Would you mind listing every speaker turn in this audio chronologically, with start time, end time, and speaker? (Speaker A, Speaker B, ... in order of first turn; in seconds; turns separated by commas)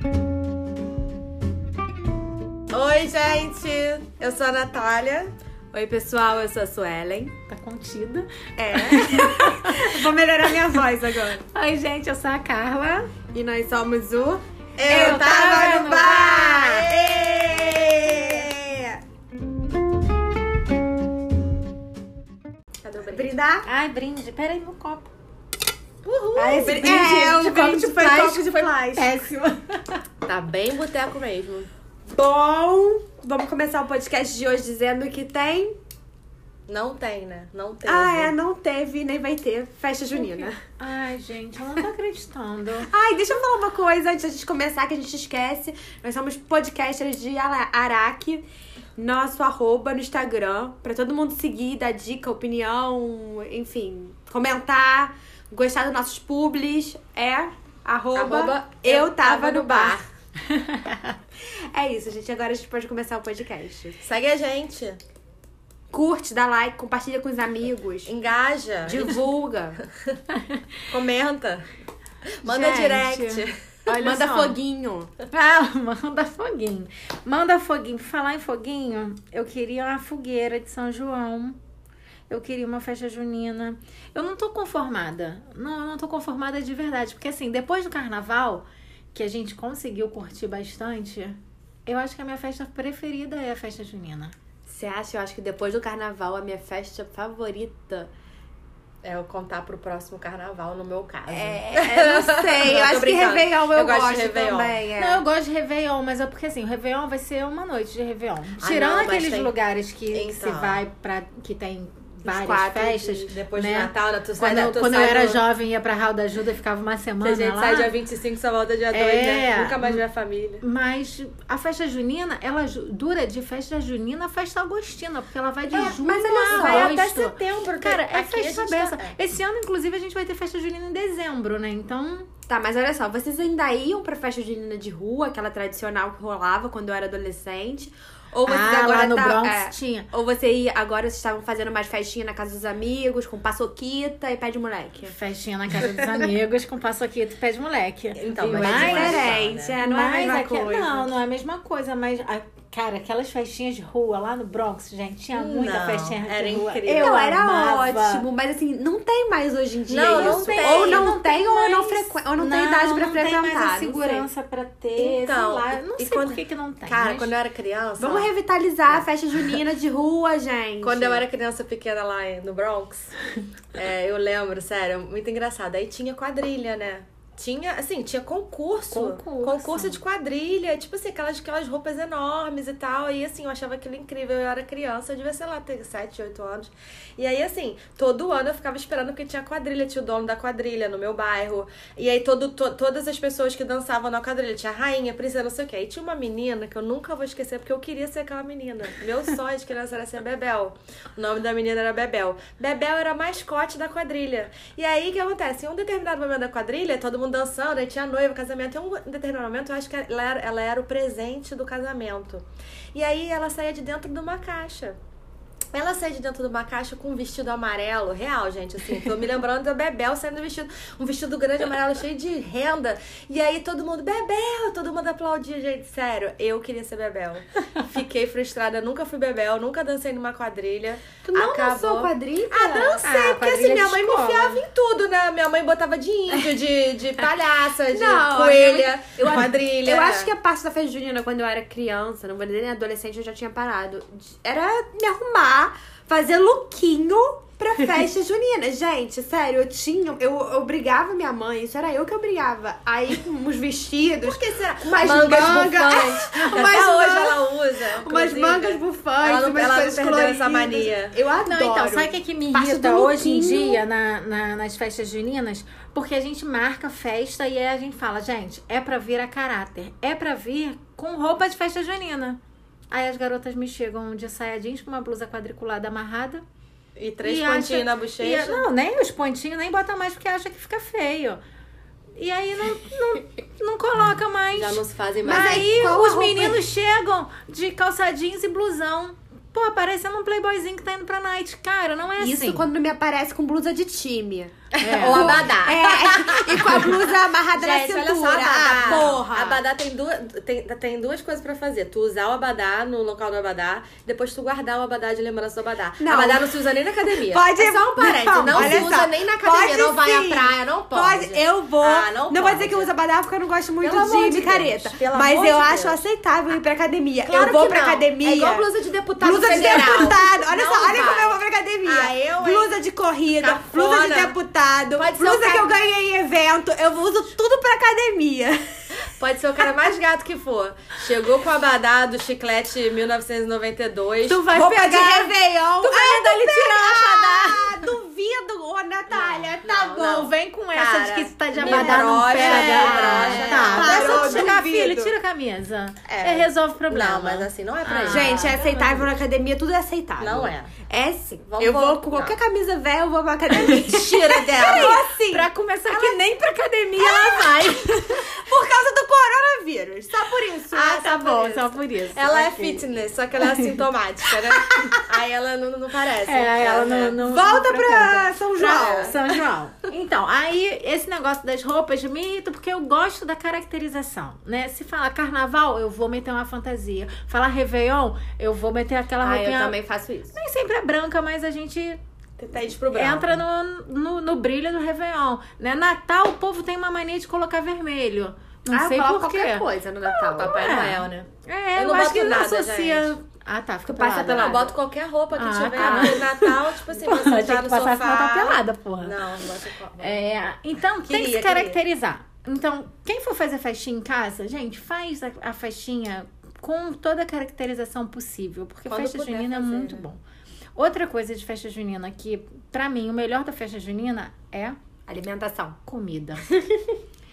Speaker A: 2.7-5.3, Speaker B: 5.7-7.3, Speaker C: 7.5-10.8, Speaker B: 8.6-11.4, Speaker C: 11.5-13.1, Speaker B: 13.3-19.0, Speaker A: 14.8-18.4, Speaker C: 14.9-16.9, Speaker A: 22.8-23.3, Speaker B: 23.1-23.7, Speaker C: 23.7-25.1, Speaker A: 26.1-26.8, Speaker C: 26.4-30.0, Speaker B: 26.4-29.1, Speaker A: 30.2-31.7, Speaker B: 32.1-35.8, Speaker A: 36.7-38.3, Speaker B: 37.9-40.6, Speaker C: 40.1-42.9, Speaker B: 42.9-48.5, Speaker B: 49.0-60.0, Speaker A: 58.1-60.0, Speaker C: 60.5-61.2, Speaker B: 61.4-64.0, Speaker A: 64.0-65.0, Speaker B: 65.9-68.1, Speaker A: 68.1-69.2, Speaker B: 68.8-69.8, Speaker C: 70.3-70.6, Speaker A: 70.9-71.7, Speaker A: 72.4-73.6, Speaker C: 72.4-74.5, Speaker B: 73.9-75.1, Speaker C: 75.3-81.6, Speaker C: 82.3-94.3, Speaker B: 94.7-98.1, Speaker A: 99.0-104.8, Speaker B: 101.3-105.2, Speaker C: 105.0-117.9, Speaker A: 108.6-109.5, Speaker A: 110.1-110.8, Speaker B: 112.2-113.0, Speaker A: 113.0-115.4, Speaker A: 117.2-120.6, Speaker C: 118.9-120.0, Speaker C: 120.6-132.3, Speaker B: 125.7-127.0, Speaker A: 126.5-129.2, Speaker B: 132.5-145.2, Speaker C: 138.5-140.1, Speaker C: 145.1-158.2, Speaker A: 148.2-149.8, Speaker B: 148.5-151.1, Speaker A: 155.3-157.2, Speaker B: 156.9-164.3, Speaker A: 159.9-161.1, Speaker C: 160.1-167.3, Speaker A: 165.0-168.3, Speaker B: 168.0-171.2, Speaker A: 170.8-173.1, Speaker A: 173.7-215.0, Speaker C: 178.9-180.0, Speaker A: 215.7-240.3, Speaker B: 231.2-233.4, Speaker C: 233.0-234.6, Speaker B: 237.9-263.8, Speaker A: 254.2-261.1, Speaker C: 256.4-256.7, Speaker C: 261.4-272.4, Speaker C: 272.9-276.4, Speaker A: 277.0-278.6, Speaker C: 277.2-281.4, Speaker C: 282.2-292.7, Speaker A: 284.5-285.8, Speaker B: 285.2-286.6, Speaker B: 292.2-299.6, Speaker A: 294.8-312.9, Speaker C: 294.8-295.4, Speaker B: 306.0-306.5, Speaker B: 307.2-318.7, Speaker A: 313.8-316.0, Speaker A: 317.3-322.8, Speaker B: 319.2-328.6, Speaker A: 323.4-324.4, Speaker A: 325.0-325.7, Speaker A: 329.0-334.5, Speaker C: 334.3-337.7, Speaker B: 334.4-340.2, Speaker A: 339.1-344.6, Speaker C: 339.9-349.1, Speaker B: 341.6-345.1, Speaker A: 346.1-348.6, Speaker B: 348.1-356.2, Speaker A: 350.2-350.8, Speaker A: 351.5-352.4, Speaker C: 353.6-358.4, Speaker A: 353.8-355.0, Speaker B: 357.0-361.3, Speaker A: 360.7-367.2, Speaker C: 361.0-362.9, Speaker C: 363.4-363.7, Speaker C: 366.2-379.8, Speaker B: 367.2-369.2, Speaker A: 368.7-369.4, Speaker B: 379.2-380.4, Speaker C: 380.3-382.0, Speaker A: 382.4-383.4, Speaker C: 382.9-394.6, Speaker B: 388.7-391.0, Speaker A: 390.4-393.1, Speaker B: 393.9-394.7, Speaker A: 394.3-400.2, Speaker C: 395.4-399.2, Speaker B: 395.8-396.3, Speaker C: 400.0-410.2, Speaker A: 401.1-401.8, Speaker A: 408.9-410.0, Speaker C: 410.8-414.8, Speaker B: 415.1-415.8, Speaker C: 415.9-416.4, Speaker B: 416.5-417.0